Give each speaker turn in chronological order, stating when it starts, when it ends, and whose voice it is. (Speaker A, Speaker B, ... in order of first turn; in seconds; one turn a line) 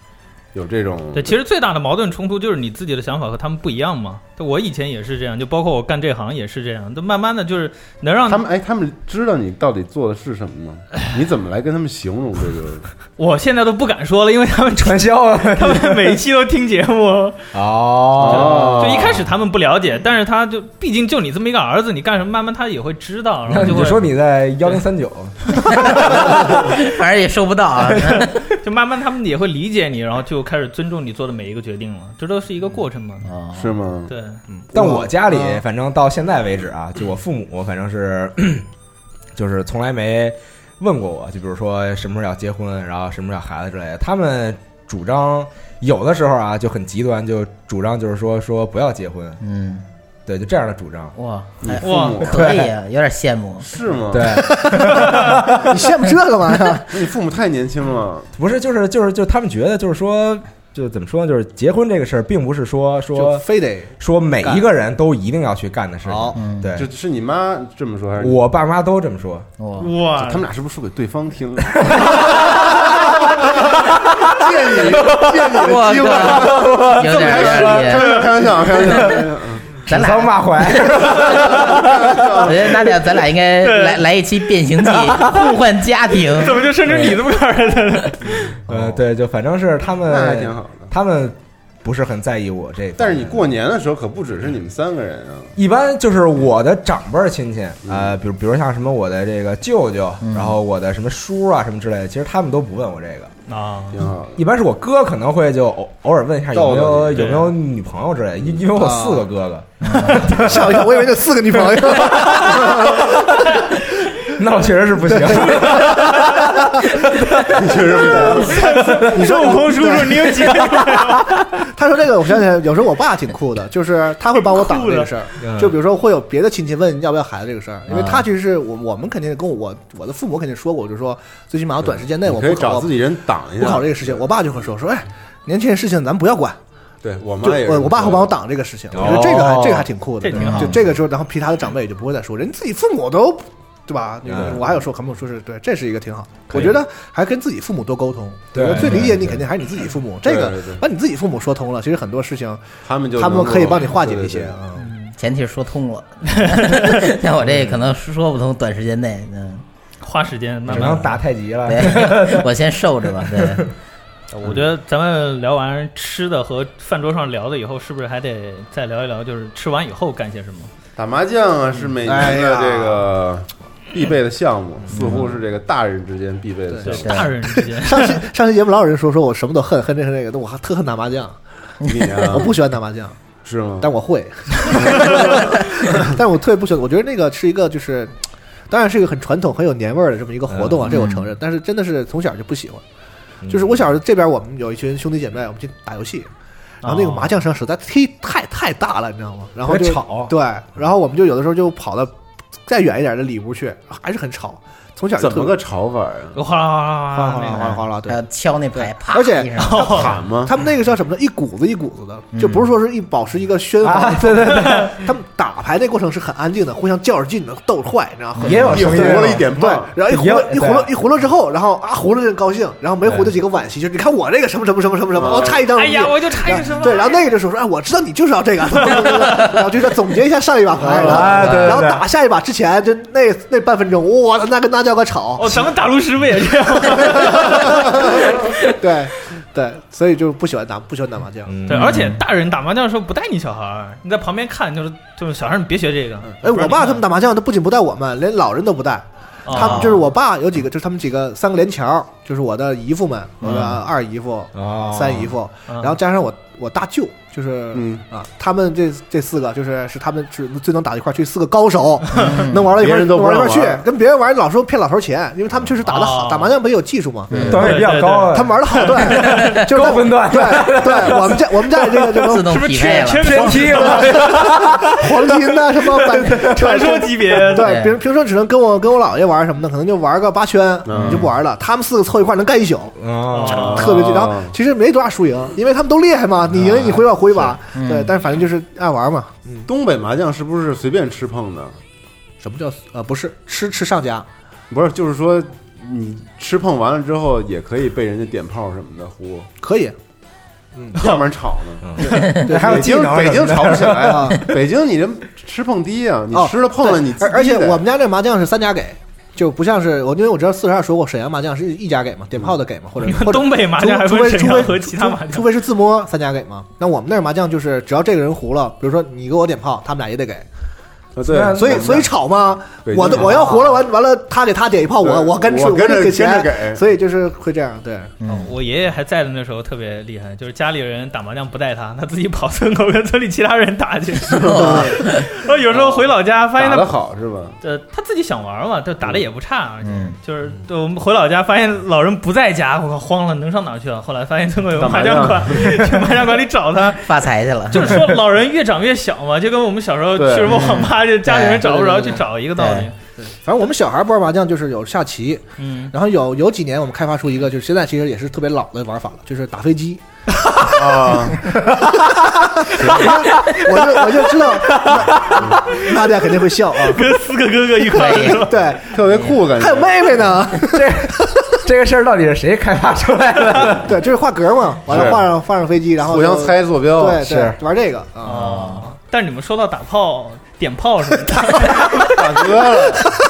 Speaker A: 0.5-1.4
Speaker B: 1.1-8.4
Speaker A: 8.3-12.9
Speaker B: 13.2-17.4
Speaker C: 14.8-16.2
Speaker C: 17.5-19.2
Speaker A: 18.2-19.2
Speaker B: 18.3-24.1
Speaker C: 23.5-26.5
Speaker B: 25.6-25.9
Speaker D: 25.6-28.5
Speaker B: 28.0-33.3
Speaker D: 33.2-33.7
Speaker A: 33.5-34.1
Speaker B: 34.1-34.4
Speaker E: 34.5-35.6
Speaker C: 34.7-38.7
Speaker C: 39.3-49.4
Speaker D: 49.4-49.8
Speaker C: 50.3-51.1
Speaker D: 51.1-53.7
Speaker A: 51.6-52.5
Speaker B: 51.8-52.2
Speaker C: 52.2-52.7
Speaker A: 53.6-54.5
Speaker C: 54.1-56.0
Speaker E: 54.2-57.0
Speaker A: 56.9-58.3
Speaker C: 58.3-63.4
Speaker E: 63.1-64.6
Speaker C: 64.0-66.9
Speaker E: 66.0-66.4
Speaker D: 66.3-66.7
Speaker A: 66.7-68.4
Speaker C: 68.2-69.5
Speaker D: 69.6-69.9
Speaker B: 69.8-70.5
Speaker A: 70.2-79.8
Speaker C: 71.8-73.0
Speaker C: 74.0-74.3
Speaker C: 74.8-75.5
Speaker D: 75.5-78.3
Speaker C: 76.1-77.9
Speaker C: 78.8-79.2
Speaker C: 79.9-82.4
Speaker D: 79.9-87.0
Speaker A: 81.6-82.8
Speaker B: 83.6-84.0
Speaker C: 84.8-85.6
Speaker B: 86.3-88.5
Speaker A: 88.7-89.0
Speaker C: 88.7-93.5
Speaker A: 90.0-90.9
Speaker A: 93.0-95.5
Speaker C: 95.5-103.3
Speaker A: 97.8-98.2
Speaker D: 100.2-100.5
Speaker B: 103.5-104.0
Speaker A: 103.9-104.4
Speaker C: 104.3-110.9
Speaker A: 106.5-107.4
Speaker B: 107.1-107.5
Speaker E: 108.8-109.2
Speaker D: 109.8-110.3
Speaker B: 110.0-110.4
Speaker E: 110.3-113.6
Speaker C: 111.8-113.4
Speaker C: 114.3-117.8
Speaker E: 115.1-116.8
Speaker B: 115.6-116.4
Speaker A: 117.5-118.5
Speaker E: 118.0-120.6
Speaker B: 118.3-121.4
Speaker C: 118.8-119.3
Speaker C: 121.0-121.3
Speaker E: 121.5-132.9
Speaker B: 124.4-125.1
Speaker C: 125.4-125.8
Speaker D: 127.9-128.2
Speaker A: 131.8-134.3
Speaker E: 133.6-136.6
Speaker A: 137.0-138.3
Speaker E: 137.4-152.6
Speaker C: 138.9-139.9
Speaker B: 140.2-140.8
Speaker D: 140.3-140.8
Speaker C: 144.2-144.6
Speaker A: 144.3-144.6
Speaker C: 146.5-146.8
Speaker C: 148.5-149.3
Speaker D: 148.8-149.1
Speaker A: 150.2-150.8
Speaker A: 152.8-154.5
Speaker E: 153.2-154.9
Speaker B: 154.8-155.1
Speaker D: 155.2-159.6
Speaker B: 156.3-157.1
Speaker B: 160.0-161.1
Speaker C: 160.7-162.5
Speaker D: 161.7-163.7
Speaker C: 163.1-163.7
Speaker A: 164.4-164.7
Speaker B: 164.4-170.7
Speaker A: 170.9-177.2
Speaker E: 172.0-173.1
Speaker D: 174.9-175.2
Speaker E: 176.7-181.4
Speaker B: 176.8-178.2
Speaker D: 177.0-177.3
Speaker D: 181.8-182.1
Speaker A: 181.8-182.6
Speaker E: 182.1-183.2
Speaker A: 183.4-183.9
Speaker E: 183.8-192.8
Speaker A: 184.9-185.4
Speaker C: 190.5-191.0
Speaker D: 190.8-191.3
Speaker C: 193.4-193.8
Speaker E: 193.5-196.3
Speaker B: 196.8-197.3
Speaker E: 196.8-202.1
Speaker C: 199.7-200.3
Speaker E: 202.7-205.6
Speaker A: 205.2-206.4
Speaker B: 206.3-207.8
Speaker E: 207.1-208.2
Speaker D: 207.6-210.0
Speaker E: 208.7-235.6
Speaker B: 209.6-210.2
Speaker A: 209.9-210.5
Speaker D: 212.3-212.7
Speaker C: 213.8-215.1
Speaker C: 218.4-219.5
Speaker A: 218.7-219.9
Speaker C: 220.1-220.9
Speaker C: 223.0-223.3
Speaker A: 225.1-225.6
Speaker B: 225.7-227.2
Speaker B: 228.8-229.5
Speaker C: 230.9-232.0
Speaker D: 231.3-231.6
Speaker B: 235.4-238.2
Speaker E: 237.1-241.5
Speaker C: 241.4-242.2
Speaker B: 241.7-247.0
Speaker E: 246.3-272.7
Speaker B: 249.4-249.9
Speaker D: 249.6-250.0
Speaker C: 249.6-250.0
Speaker D: 253.4-253.8
Speaker C: 254.5-255.3
Speaker B: 255.7-255.9
Speaker A: 257.7-258.0
Speaker B: 262.1-262.4
Speaker D: 262.1-262.6
Speaker A: 262.6-263.8
Speaker B: 265.8-266.5
Speaker D: 267.3-267.7
Speaker C: 267.3-272.2
Speaker B: 267.5-269.6
Speaker D: 269.2-269.6
Speaker D: 272.2-273.8
Speaker B: 272.4-274.6
Speaker C: 273.2-276.6
Speaker E: 273.5-283.0
Speaker B: 276.2-277.8
Speaker D: 277.6-278.0
Speaker A: 280.8-281.3
Speaker C: 281.0-281.3
Speaker C: 283.0-283.8
Speaker B: 283.3-284.0
Speaker E: 283.5-289.7
Speaker A: 283.5-284.6
Speaker C: 286.6-286.9
Speaker D: 287.7-288.1
Speaker A: 289.6-291.8
Speaker E: 292.4-294.2
Speaker A: 294.7-299.5
Speaker E: 299.6-299.9
Speaker E: 300.8-301.1
Speaker A: 300.9-307.8
Speaker C: 301.8-304.5
Speaker E: 302.0-302.9
Speaker D: 302.1-302.5
Speaker E: 303.9-304.4
Speaker E: 306.3-320.4
Speaker B: 313.0-315.5
Speaker A: 321.1-322.1
Speaker C: 321.2-322.1
Speaker E: 321.4-328.4
Speaker A: 322.8-323.6
Speaker A: 325.0-326.8
Speaker D: 328.2-328.5
Speaker B: 328.4-336.9
Speaker A: 334.4-334.9
Speaker D: 334.4-335.3
Speaker E: 334.6-334.9
Speaker A: 335.7-337.6
Speaker B: 337.6-352.9
Speaker D: 339.8-340.2
Speaker A: 344.8-345.8
Speaker D: 347.0-348.0
Speaker A: 350.2-350.6
Speaker D: 350.5-352.9
Speaker E: 353.2-360.0
Speaker B: 355.6-355.9
Speaker A: 360.7-361.5
Speaker E: 361.1-367.1
Speaker A: 362.8-363.1
Speaker B: 364.8-366.0
Speaker B: 366.8-368.6
Speaker D: 367.9-368.5
Speaker E: 368.4-371.2
Speaker A: 368.9-370.3
Speaker C: 370.7-374.0
Speaker E: 373.6-378.6
Speaker C: 374.9-375.2
Speaker A: 374.9-375.3
Speaker A: 376.0-377.2
Speaker C: 377.2-377.6
Speaker B: 378.2-382.2
Speaker D: 378.3-378.9
Speaker A: 382.1-383.1